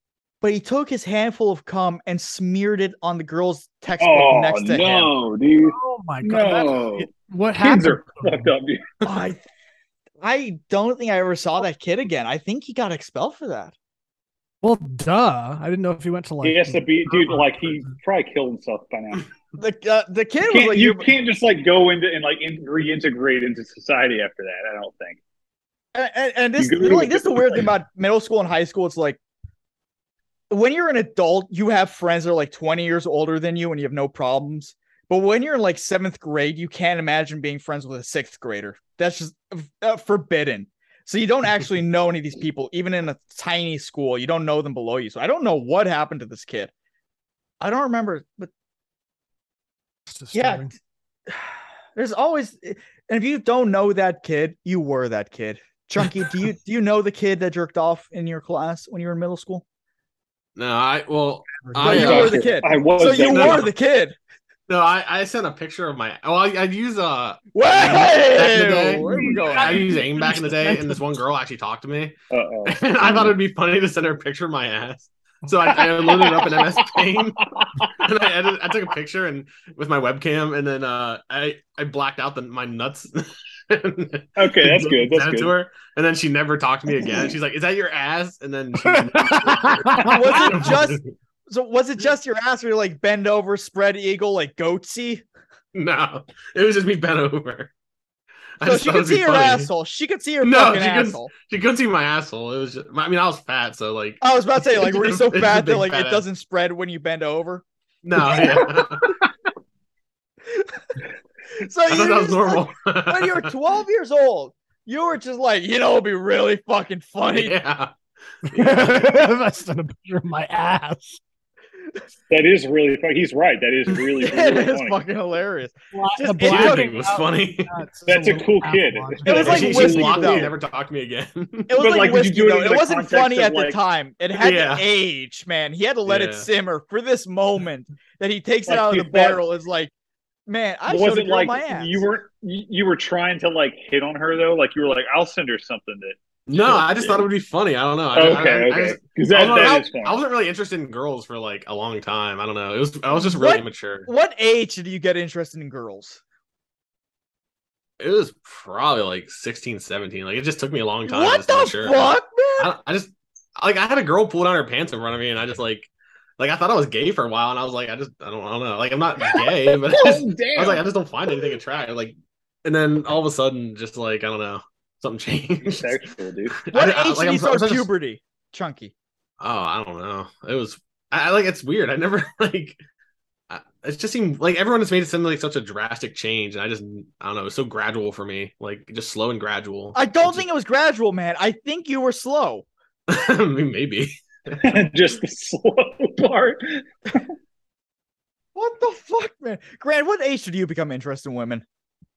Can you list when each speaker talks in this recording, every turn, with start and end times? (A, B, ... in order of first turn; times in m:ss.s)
0:00.4-0:05.1 A
0:04.0-0:08.9 B
0:05.7-0:08.5 C
0:09.0-0:09.4 A
0:10.2-0:13.7 A
0:14.6-0:17.9 C
0:16.4-0:19.3 B
0:19.6-0:21.0 A
0:20.5-0:25.2 B
0:25.9-0:29.2 A
0:26.6-0:27.7 B
0:30.5-0:46.7 A
0:47.6-0:48.5 A
0:50.1-0:50.7 C
0:50.3-0:50.7 A
0:51.3-0:59.6 A
1:00.6-1:03.7 D
1:01.7-1:04.2 A
1:01.8-1:03.6 B
1:04.7-1:12.1 D
1:07.5-1:09.9 A
1:09.2-1:11.0 C
1:12.3-1:13.3 B
1:12.6-1:17.4 D
1:16.0-1:17.0 B
1:18.0-1:31.1 D
1:24.4-1:25.5 B
1:28.8-1:30.1 C
1:30.1-1:35.2 A
1:35.7-1:37.7 D
1:38.6-1:39.7 D
1:38.6-1:41.3 A
1:40.4-1:46.2 D
1:44.2-1:47.6 A
1:48.0-1:49.2 D
1:48.2-1:49.0 A
1:50.4-1:50.9 A
1:51.6-1:57.5 A
1:51.9-1:53.5 D
1:57.3-1:57.9 D
1:58.5-2:01.2 C
1:58.5-1:59.2 D
2:02.3-2:05.0 B
2:04.2-2:06.9 A
2:05.9-2:10.0 C
2:06.4-2:07.7 D
2:08.1-2:10.4 B
2:09.2-2:10.5 A
2:09.3-2:11.8 D
2:11.7-2:19.9 A
2:11.8-2:13.8 B
2:14.4-2:14.8 D
2:16.0-2:16.5 D
2:18.7-2:19.4 B
2:20.5-2:22.0 A
2:20.9-2:27.2 B
2:26.5-2:34.1 D
2:28.2-2:30.1 B
2:29.6-2:29.8 A
2:33.1-2:36.2 A
2:38.0-2:56.0 D
2:41.0-2:42.7 A
2:49.9-2:50.8 B
2:55.6-2:56.5 B
2:56.6-2:57.9 D
2:56.7-2:58.9 A
2:59.4-3:02.8 D
3:03.5-3:10.4 D
3:09.9-3:12.6 A
3:13.1-3:14.9 D
3:14.6-3:17.2 B
3:18.5-3:21.6 A